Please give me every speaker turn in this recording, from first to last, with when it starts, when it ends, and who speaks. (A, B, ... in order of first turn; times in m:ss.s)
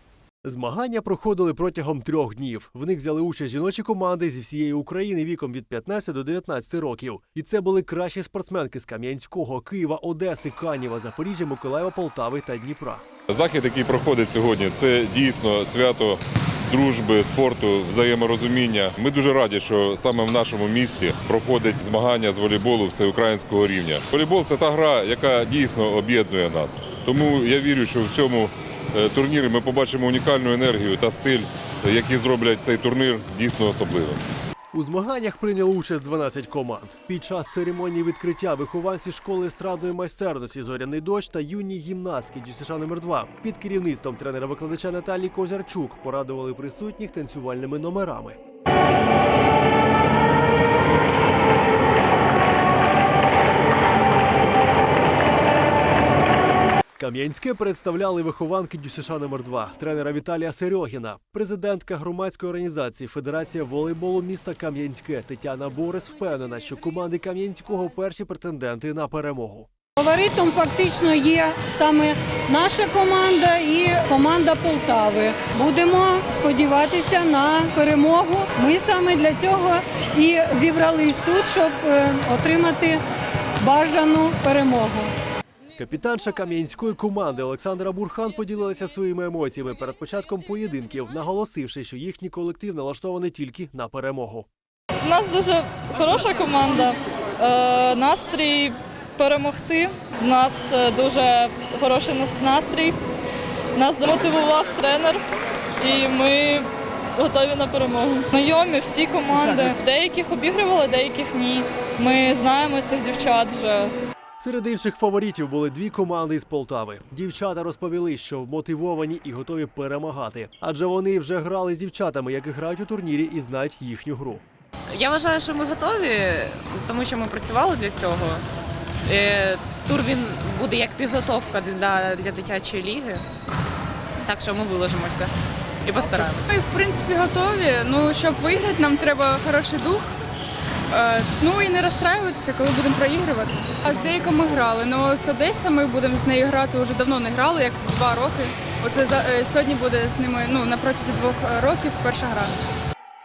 0:00.4-0:13.0 A
0:13.3-0:34.2 B
0:34.7-0:48.4 A
0:57.0-1:09.7 A
1:10.0-1:23.0 C
1:23.6-1:25.1 C
1:25.8-1:34.5 A
1:35.0-1:43.0 D
1:43.7-1:45.2 D
1:45.8-1:53.9 D
1:49.3-1:49.7 A
1:54.4-2:04.4 A
2:04.9-2:08.4 E
2:09.0-2:13.2 E
2:14.2-2:15.3 E
2:15.8-2:16.5 E
2:16.5-2:20.1 F
2:20.9-2:32.6 F